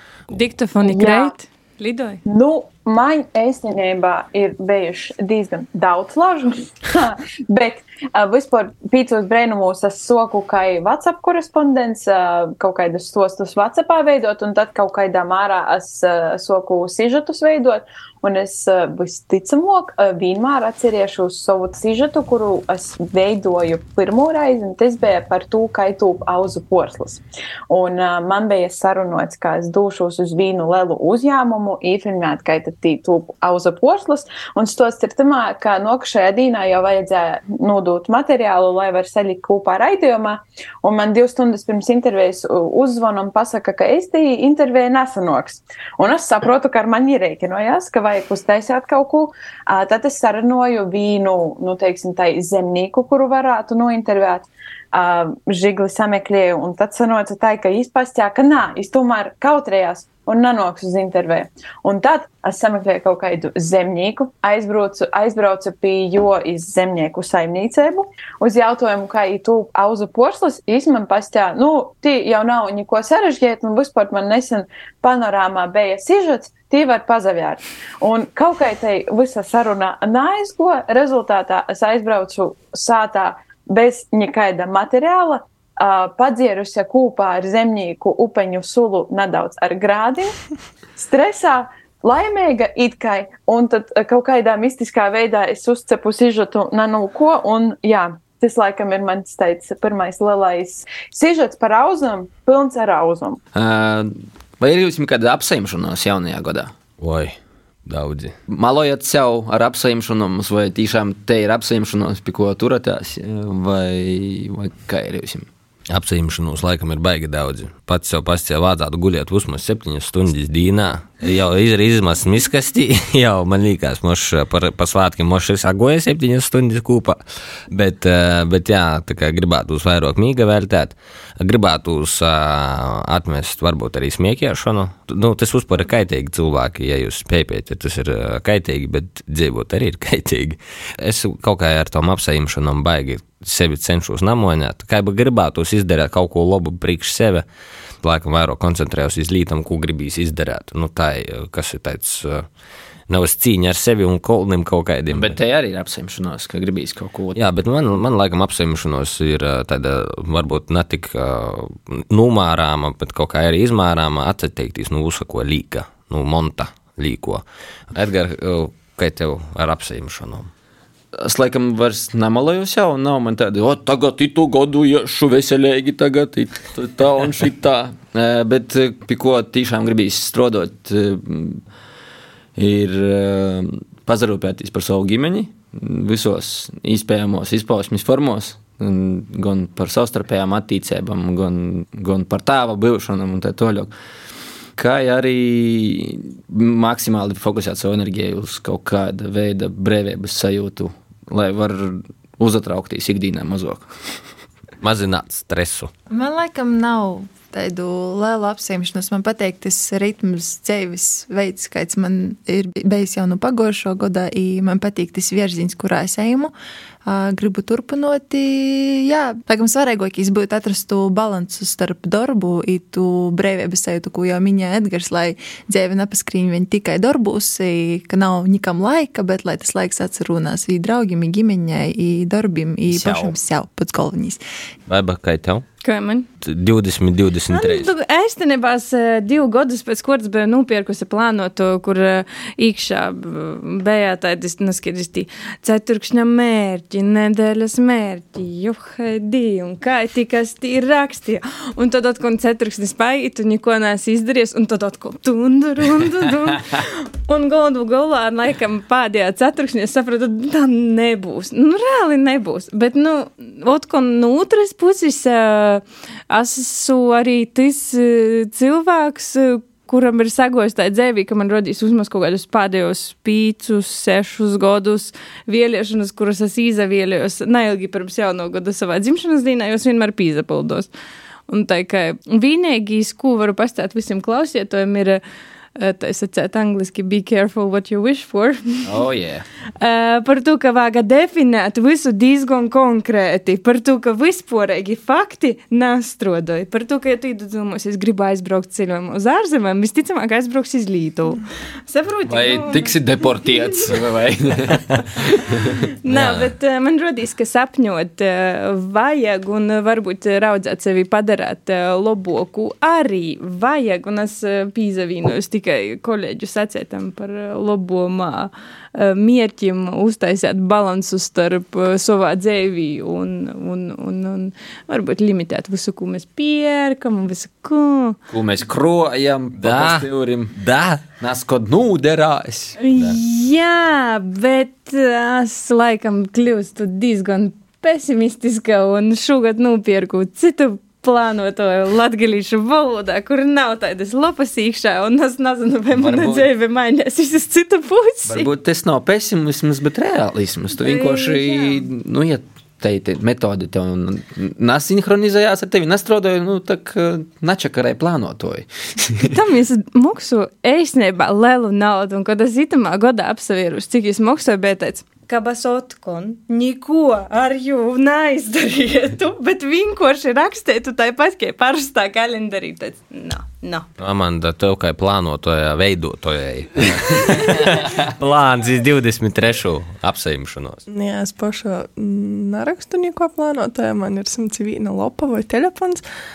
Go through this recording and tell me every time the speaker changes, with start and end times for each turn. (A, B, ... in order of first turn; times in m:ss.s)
0:00.3-0:02.2 A
0:00.8-0:01.3 B
0:02.3-1:30.4 B
1:31.0-1:43.4 B
1:43.6-1:46.7 C
1:47.0-1:48.4 D
1:48.5-1:55.5 C
1:55.9-2:07.2 D
2:07.7-2:27.4 D
2:28.0-2:32.4 D
2:33.1-2:35.4 D
2:35.1-2:37.4 C
2:37.4-2:50.5 D
2:51.1-3:01.6 C
3:02.6-3:13.9 C
3:14.8-3:23.9 C
3:24.8-3:25.9 D
3:26.1-3:36.5 E
3:37.0-3:54.4 E
3:53.0-3:53.3 C
3:54.9-3:55.6 D
3:55.8-3:56.3 A
3:56.4-3:57.9 D
3:57.5-4:40.9 A
4:41.5-4:45.2 A
4:45.8-4:48.9 A
4:48.9-4:49.4 C
4:49.8-5:03.0 A
5:02.3-5:05.8 C
5:06.0-5:28.2 A
5:06.1-5:06.5 D
5:28.3-5:30.6 C
5:29.6-5:31.0 D
5:31.2-5:32.7 C
5:32.8-5:48.5 A
5:45.9-5:46.5 C
5:48.3-5:59.3 C
5:50.8-5:51.8 A
5:59.2-6:13.9 A
6:14.0-6:20.8 D
6:20.9-6:26.0 F